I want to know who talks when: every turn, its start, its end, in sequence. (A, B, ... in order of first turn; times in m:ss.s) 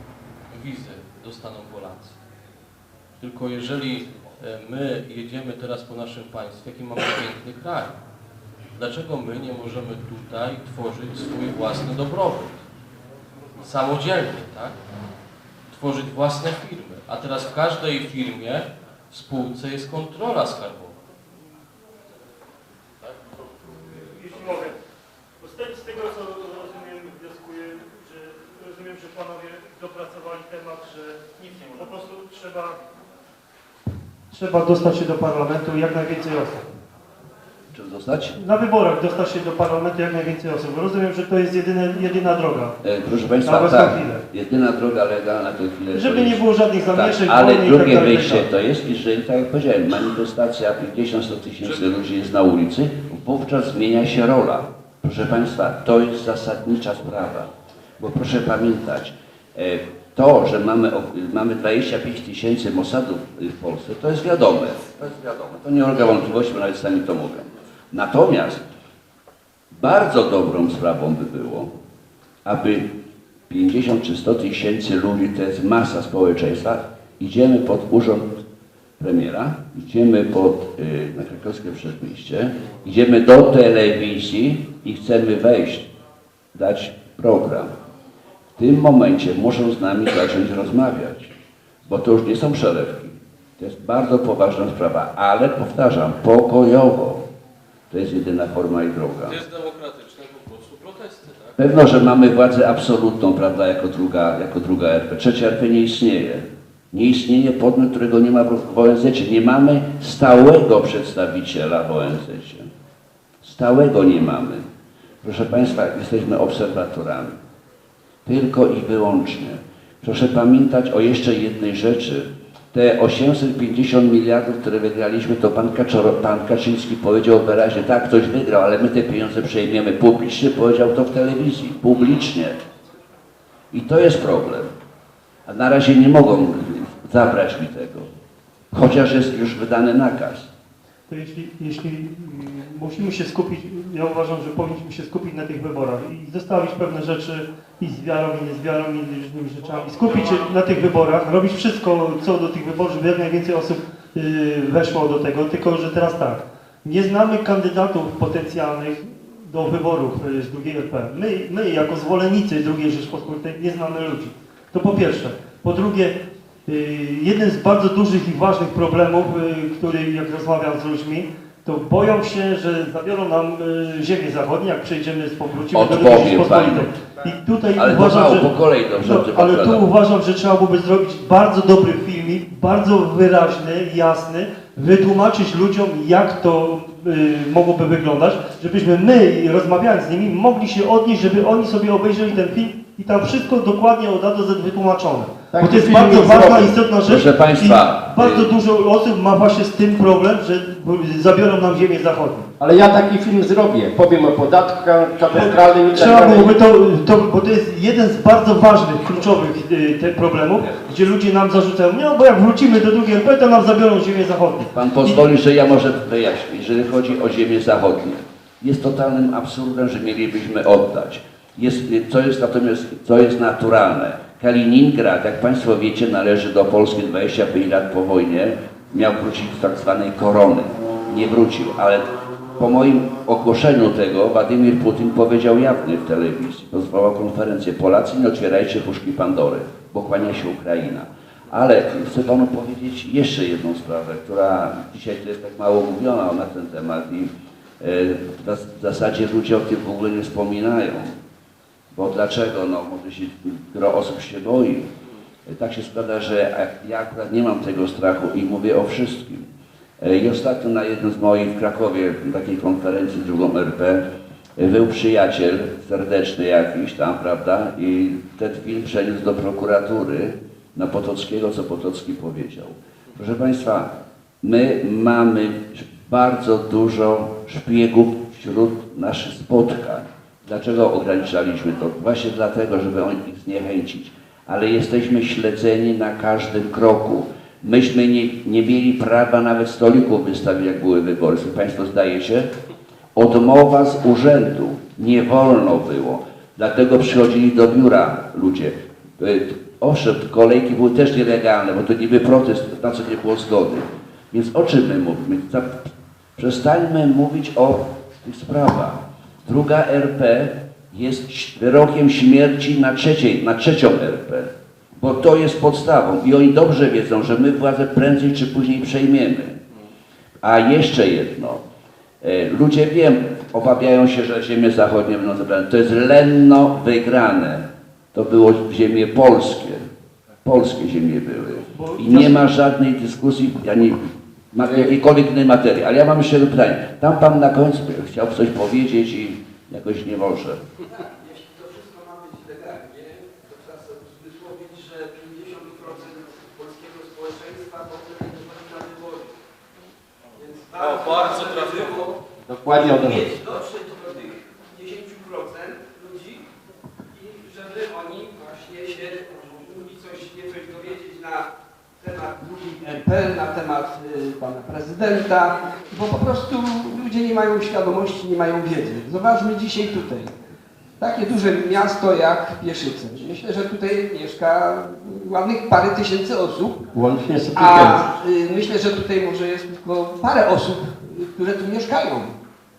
0:00.5-0:02.2 A
0:03.2-0:07.9 A
0:08.8-0:12.6 A
0:13.6-0:14.8 A
0:15.7-0:21.0 A
0:24.0-0:24.8 B
0:25.4-0:32.8 B
0:34.3-0:36.7 B
0:37.7-0:38.4 C
0:38.4-0:42.8 B
0:42.8-1:08.6 C
0:43.4-0:44.2 B
0:45.9-0:48.4 B
1:09.7-1:11.7 C
1:12.4-1:12.9 C
1:13.5-1:18.3 C
1:19.0-1:25.9 C
1:26.5-1:27.7 C
1:28.6-1:31.3 C
1:31.8-1:37.2 C
1:37.9-1:39.4 C
1:39.3-1:41.6 A
1:41.6-1:52.7 C
1:53.4-1:54.6 C
1:55.2-1:57.4 C
1:58.2-2:12.6 C
2:13.7-2:14.7 C
2:15.4-2:18.1 C
2:18.7-2:20.5 C
2:21.1-3:22.5 B
2:55.7-2:56.9 C
2:57.7-2:59.8 C
3:15.5-3:16.7 D
3:17.0-3:18.5 C
3:22.6-3:26.6 D
3:25.3-3:35.1 B
3:34.7-4:11.1 C
4:11.9-4:14.9 C
4:15.4-4:19.5 C
4:20.0-4:24.0 C
4:24.6-4:33.9 C
4:34.4-4:52.5 C
4:53.1-5:19.6 C
5:20.4-5:21.6 C
5:22.2-5:29.8 C
5:30.4-5:40.6 C
5:31.7-5:32.4 B
5:40.9-5:49.3 E
5:50.3-5:56.5 E
5:50.8-5:52.0 A
5:52.5-5:53.3 D
5:57.1-6:10.4 E
6:11.0-6:16.8 E
6:16.9-6:18.0 D
6:17.5-6:22.3 E